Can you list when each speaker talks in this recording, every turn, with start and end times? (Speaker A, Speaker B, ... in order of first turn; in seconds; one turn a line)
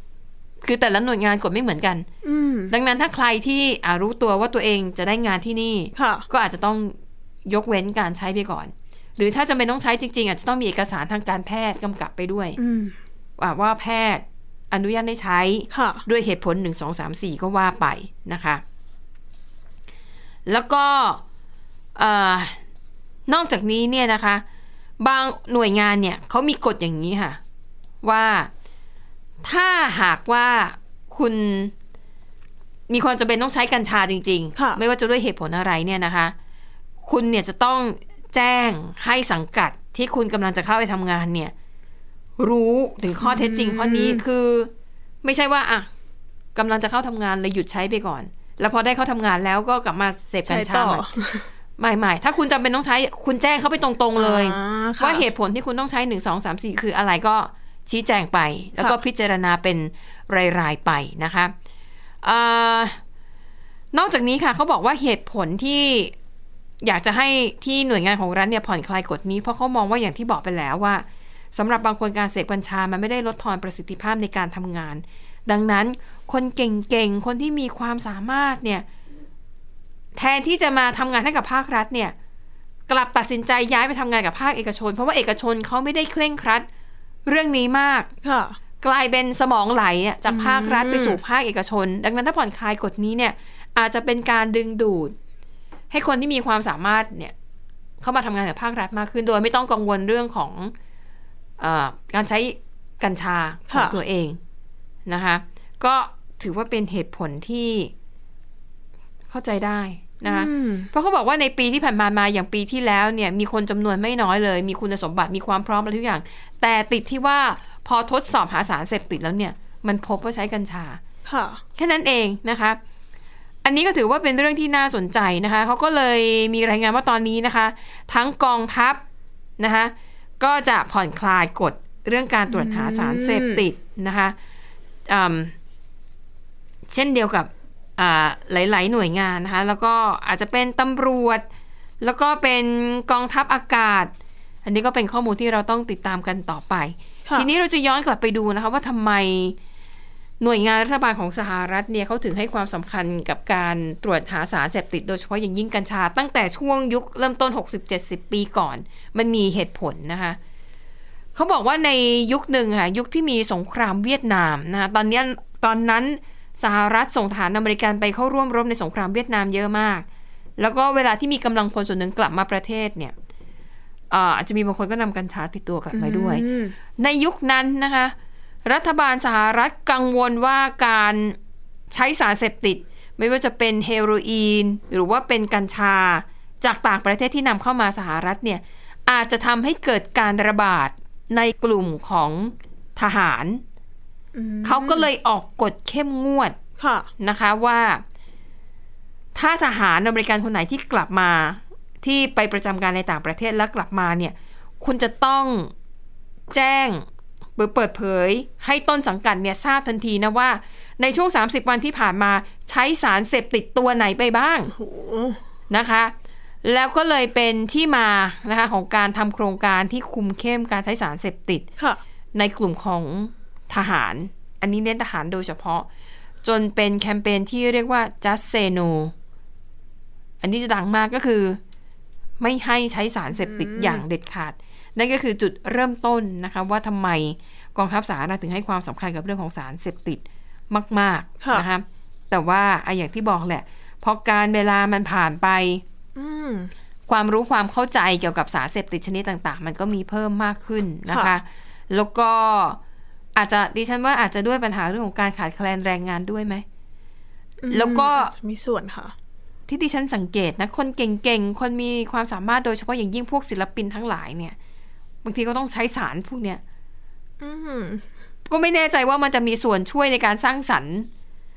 Speaker A: 0.6-2.1
Speaker B: 2.2-2.7
Speaker A: 2.7-6.9
Speaker B: 6.0-6.2
Speaker A: 7.5-12.6
Speaker B: 12.6-12.9
Speaker A: 13.4-18.6
Speaker B: 15.7-16.0
Speaker A: 20.5-21.2
Speaker A: 21.9-22.6
Speaker A: 23.3-24.4
Speaker A: 25.0-27.4
Speaker A: 28.0-28.5
Speaker A: 29.4-31.7
Speaker A: 32.9-36.3
Speaker B: 34.5-34.8
Speaker A: 37.0-41.5
Speaker A: 42.4-44.7
Speaker B: 43.2-44.2
Speaker A: 45.2-45.9
Speaker A: 46.5-51.0
Speaker B: 50.5-51.5
Speaker A: 51.8-61.5
Speaker B: 54.1-55.2
Speaker A: 62.2-63.0
Speaker A: 63.9-66.1
Speaker A: 66.8-78.8
Speaker A: 80.1-82.1
Speaker A: 82.9-86.7
Speaker A: 87.3-88.1
Speaker B: 88.2-88.6
Speaker A: 88.8-95.1
Speaker B: 90.3-91.2
Speaker A: 95.9-97.3
Speaker A: 98.0-100.7
Speaker A: 101.6-104.4
Speaker B: 103.7-104.0
Speaker A: 105.1-107.9
Speaker A: 109.3-121.0
Speaker B: 110.2-110.9
Speaker B: 121.2-121.6
Speaker A: 121.8-122.8
Speaker A: 123.6-129.0
Speaker A: 129.6-134.3
Speaker B: 132.5-133.6
Speaker A: 135.1-135.5
Speaker A: 136.9-141.4
Speaker A: 142.0-144.1
Speaker A: 144.6-149.6
Speaker A: 150.4-160.4
Speaker A: 161.3-170.0
Speaker A: 170.6-173.1
Speaker A: 174.1-176.4
Speaker B: 175.9-176.8
Speaker A: 177.0-178.1
Speaker A: 178.6-181.4
Speaker A: 181.9-193.6
Speaker B: 194.3-195.1
Speaker A: 194.6-196.6
Speaker B: 196.8-197.1
Speaker A: 197.2-198.0
Speaker A: 199.3-205.7
Speaker A: 206.5-214.7
Speaker B: 214.8-215.4
Speaker A: 215.7-216.1
Speaker A: 216.6-221.7
Speaker A: 222.3-225.9
Speaker A: 226.4-229.1
Speaker A: 230.4-231.6
Speaker A: 232.4-245.8
Speaker B: 233.5-234.0
Speaker B: 241.4-241.7
Speaker B: 246.2-246.7
Speaker A: 247.1-252.8
Speaker B: 251.1-251.3
Speaker A: 253.3-256.6
Speaker B: 257.6-259.1
Speaker A: 257.7-258.3
Speaker A: 259.7-264.6
Speaker A: 265.2-266.6
Speaker B: 267.4-268.1
Speaker A: 268.5-271.1